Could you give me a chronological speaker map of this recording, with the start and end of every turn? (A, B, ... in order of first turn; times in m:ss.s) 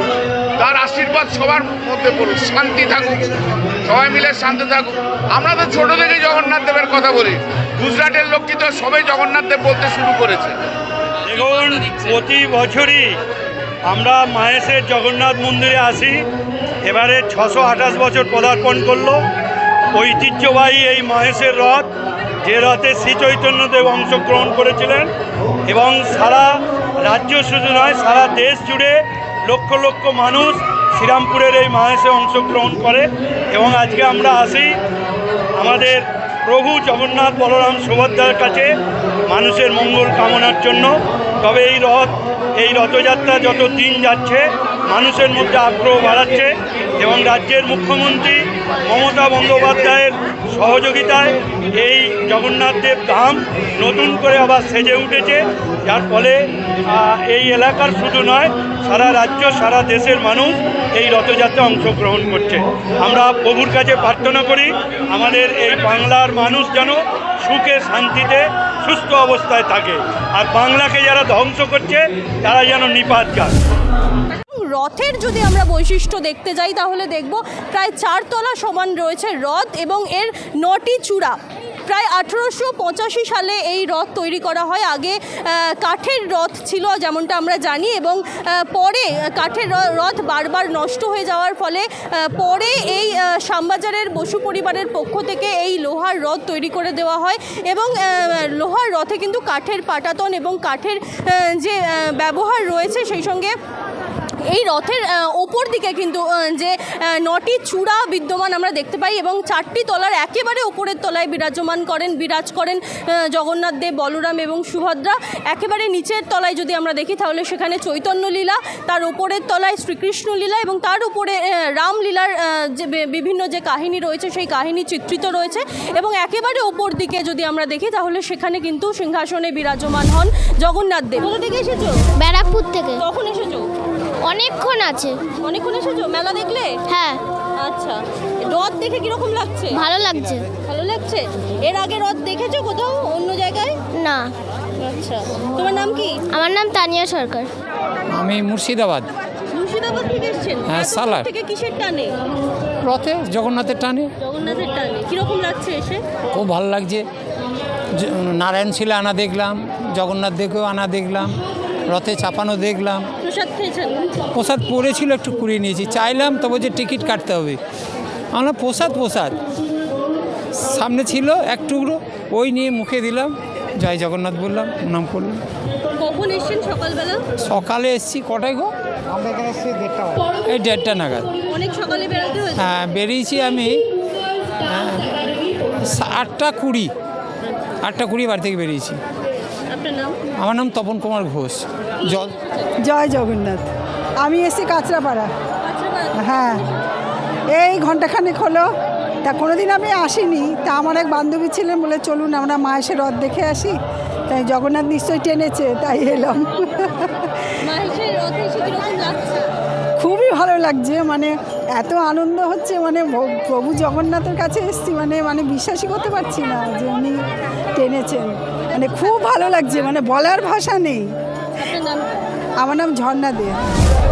0:00.6-0:10.6 A
0:11.2-0:13.2 B
0:13.9-0:16.2 B
0:16.8-0:19.2 B
0:19.9-0:21.9 B
0:22.4-0:25.1 B
0:25.7-0:34.8 B
0:35.6-0:38.7 B
0:39.3-1:13.6 B
1:14.3-1:43.5 C
1:44.4-2:12.1 C
2:12.2-2:13.0 D
2:13.0-2:13.7 C
2:14.2-2:15.2 D
2:15.4-2:16.8 C
2:16.9-2:17.2 D
2:17.6-2:19.8 C
2:19.7-2:20.4 D
2:20.6-2:23.8 C
2:23.9-2:24.3 D
2:24.8-2:26.2 C
2:26.3-2:27.5 D
2:28.1-2:29.1 E
2:29.5-2:32.1 C
2:30.7-2:31.3 E
2:32.8-2:34.1 E
2:34.2-2:36.0 C
2:36.3-2:37.0 E
2:38.0-2:43.1 E
2:43.2-2:44.2 C
2:44.3-2:47.6 E
2:48.3-2:49.4 E
2:50.6-2:55.4 E
2:56.0-2:57.2 C
2:57.4-2:58.7 E
3:00.2-3:01.3 E
3:01.4-3:02.7 C
3:02.6-3:03.9 E
3:04.5-3:05.2 E
3:05.8-3:06.9 E
3:07.8-3:09.0 E
3:09.7-3:10.2 C
3:10.4-3:12.3 E
3:12.8-3:13.7 F
3:14.2-3:15.3 F
3:15.6-3:16.8 C
3:16.2-3:16.6 F
3:17.6-3:18.6 F
3:19.2-3:23.7 F
3:24.3-3:27.0 F
3:27.6-3:29.5 C
3:30.0-3:37.2 F
3:37.8-3:41.0 F
3:39.0-3:39.4 C
3:41.6-3:42.2 C
3:42.6-3:43.6 F